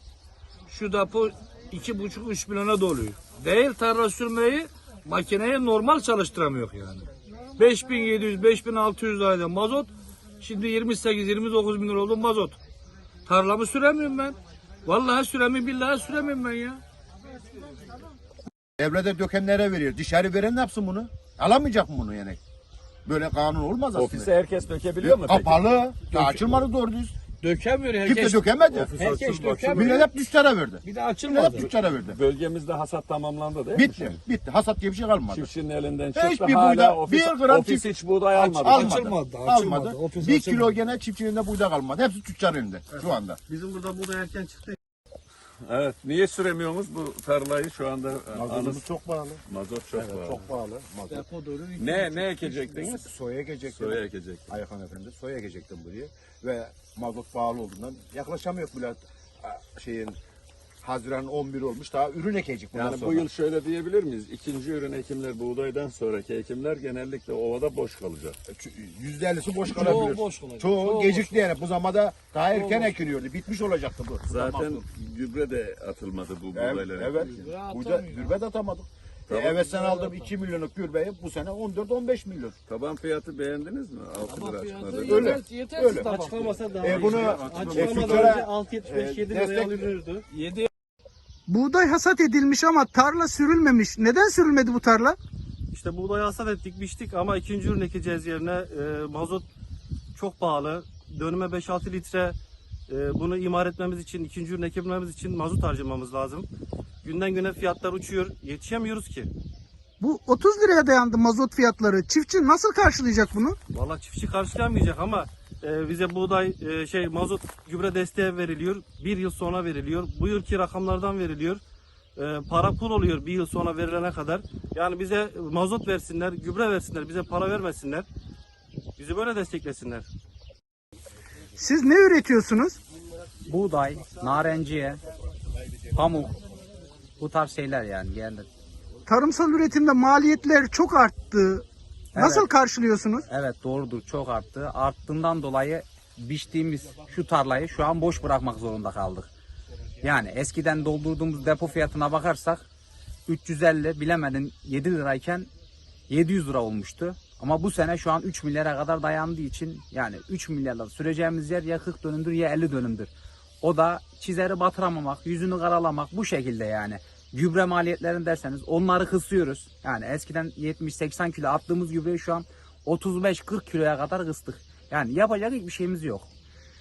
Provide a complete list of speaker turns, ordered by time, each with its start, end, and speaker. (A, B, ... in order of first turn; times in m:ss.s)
0:00.7-0:12.6 A
0:13.3-0:16.8 A
0:18.8-0:22.4 B
0:23.1-0:24.3 B
0:23.9-0:25.7 C
0:25.0-0:27.2 B
0:26.1-0:26.5 A
0:27.4-0:30.1 A
0:28.0-0:29.0 B
0:29.6-0:32.2 B
0:30.8-0:31.7 A
0:31.7-0:34.2 C
0:33.7-0:35.5 B
0:35.3-0:39.2 C
0:36.1-0:37.9 B
0:38.3-0:40.7 A
0:38.6-0:43.4 B
0:42.9-0:44.8 D
0:45.7-0:48.9 C
0:48.3-0:49.4 B
0:49.5-0:50.4 C
0:50.0-0:51.3 B
0:51.2-0:52.4 A
0:51.8-0:53.1 C
0:52.5-1:00.2 B
0:53.6-0:54.6 C
1:00.8-1:03.3 B
1:02.7-1:08.4 C
1:08.5-1:14.8 B
1:09.7-1:11.5 A
1:12.5-1:12.9 A
1:14.3-1:17.6 C
1:16.5-1:22.6 B
1:17.4-1:18.3 A
1:19.3-1:19.7 C
1:19.7-1:20.2 A
1:22.7-1:25.4 C
1:24.2-1:27.2 A
1:24.9-1:26.2 B
1:26.1-1:30.2 D
1:26.8-1:29.7 B
1:26.9-1:27.9 C
1:30.3-1:30.7 A
1:31.5-1:35.2 E
1:35.7-1:39.4 D
1:40.2-1:42.4 D
1:42.9-1:46.5 D
1:47.0-1:49.3 D
1:50.0-1:53.6 E
1:53.7-2:01.6 D
2:02.2-2:08.1 D
2:09.0-2:10.1 D
2:11.6-2:12.8 E
2:13.5-2:15.0 F
2:15.9-2:16.3 F
2:17.2-2:18.5 F
2:19.1-2:23.3 E
2:22.2-2:22.5 F
2:23.3-2:29.3 F
2:30.0-2:32.6 F
2:33.3-2:35.5 F
2:36.1-2:43.1 F
2:43.6-2:56.3 F